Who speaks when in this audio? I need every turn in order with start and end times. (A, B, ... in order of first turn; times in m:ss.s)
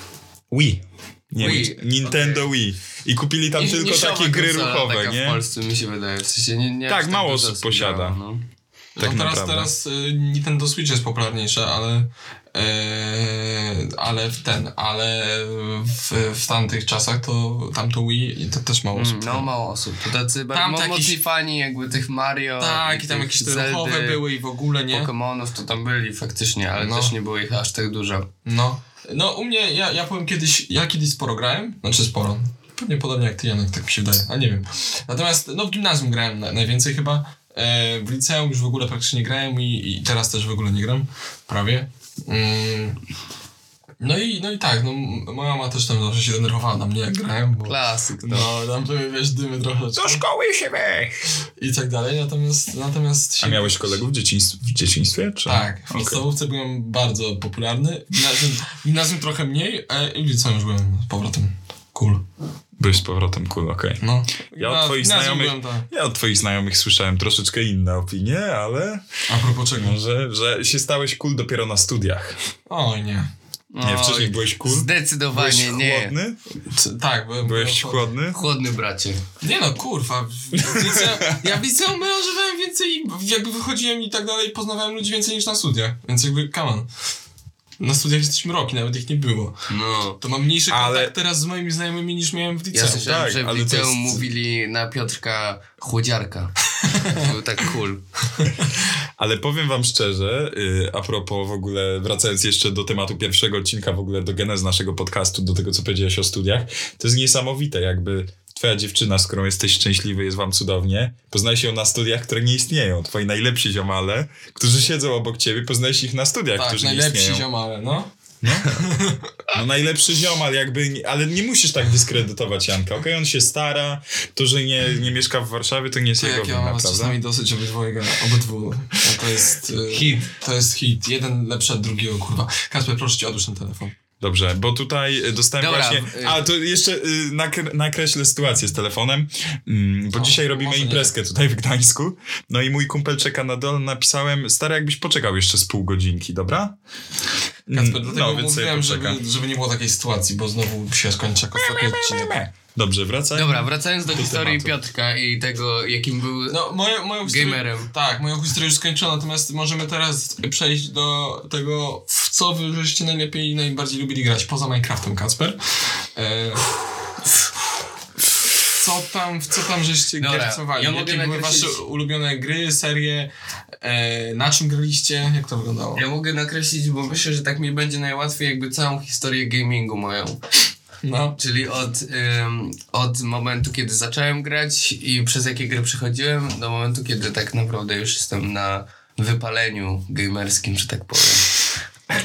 0:00.5-0:05.4 A
0:01.4-0:02.4 B
0:03.6-0:08.4 B
0:06.9-0:08.2 A
0:09.0-0:19.5 C
0:09.0-0:09.7 A
0:18.9-0:24.2 B
0:20.5-0:21.2 C
0:22.6-0:25.1 C
0:24.9-0:28.3 B
0:26.8-0:27.1 C
0:28.4-0:43.0 C
0:44.0-0:50.2 C
0:47.6-0:48.5 B
0:50.0-0:51.2 A
0:51.6-0:54.0 C
0:53.4-0:56.2 A
0:55.5-1:02.2 C
1:02.8-1:04.0 A
1:04.0-1:05.9 C
1:04.6-1:09.1 A
1:09.3-1:10.0 C
1:09.7-1:12.4 A
1:12.7-1:13.3 C
1:13.7-1:16.2 B
1:13.8-1:16.4 A
1:16.6-1:18.1 C
1:17.4-1:18.4 A
1:18.3-1:19.2 B
1:19.4-1:26.9 C
1:20.6-1:21.6 A
1:27.8-1:29.6 C
1:29.7-1:30.2 B
1:30.2-1:33.2 C
1:30.7-1:31.1 A
1:32.7-1:38.0 B
1:33.0-1:34.2 A
1:36.9-1:37.2 C
1:39.2-1:57.5 A
1:56.6-1:58.1 C
1:58.4-1:58.9 A
1:58.6-1:59.4 C
1:59.5-2:07.2 A
2:06.2-2:14.0 C
2:09.9-2:10.2 B
2:14.2-2:26.8 A
2:15.6-2:16.4 B
2:20.1-2:21.1 C
2:27.7-2:29.2 A
2:27.7-2:32.3 C
2:31.6-2:34.7 A
2:33.3-2:36.6 B
2:36.5-2:46.7 C
2:37.2-2:37.9 B
2:48.7-2:53.3 C
2:50.2-2:51.8 B
2:53.8-2:56.0 C
2:56.0-3:00.4 B
3:01.0-3:01.4 C
3:01.4-3:11.5 B